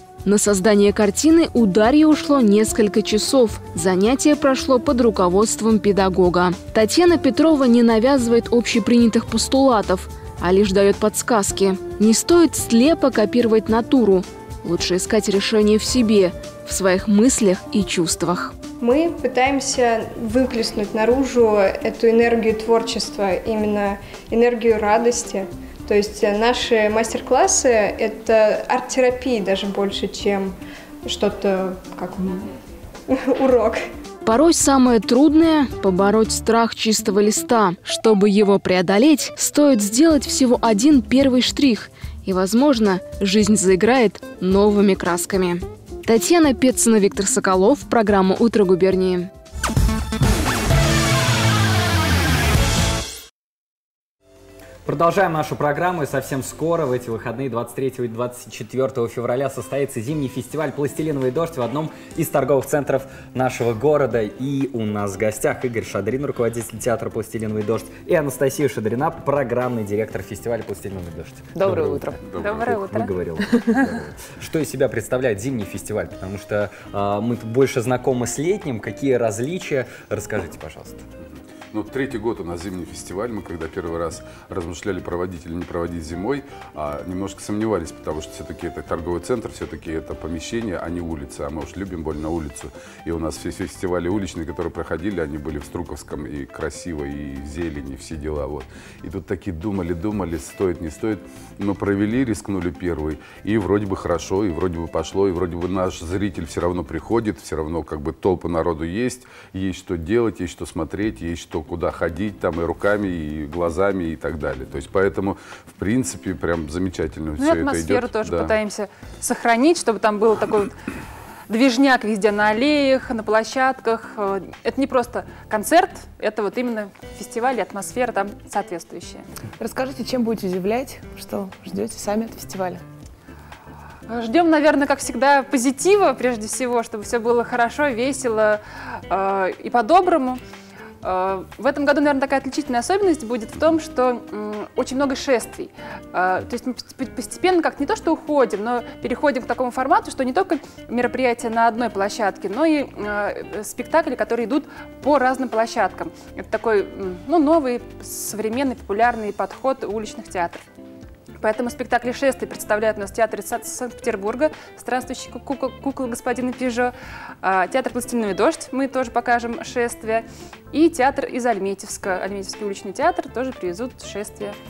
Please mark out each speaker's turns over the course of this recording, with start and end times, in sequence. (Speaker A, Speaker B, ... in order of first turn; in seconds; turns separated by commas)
Speaker A: 0.2-18.5, Speaker B: 18.8-32.5, Speaker B: 33.1-33.8, Speaker A: 34.2-49.3, Speaker C: 54.9-81.0, Speaker D: 71.7-72.1, Speaker E: 72.2-72.8, Speaker F: 72.4-73.1, Speaker E: 81.7-118.6, Speaker F: 117.4-120.7, Speaker F: 121.5-129.2, Speaker D: 129.6-132.8, Speaker F: 134.1-140.4, Speaker F: 141.0-160.6, Speaker F: 161.4-174.6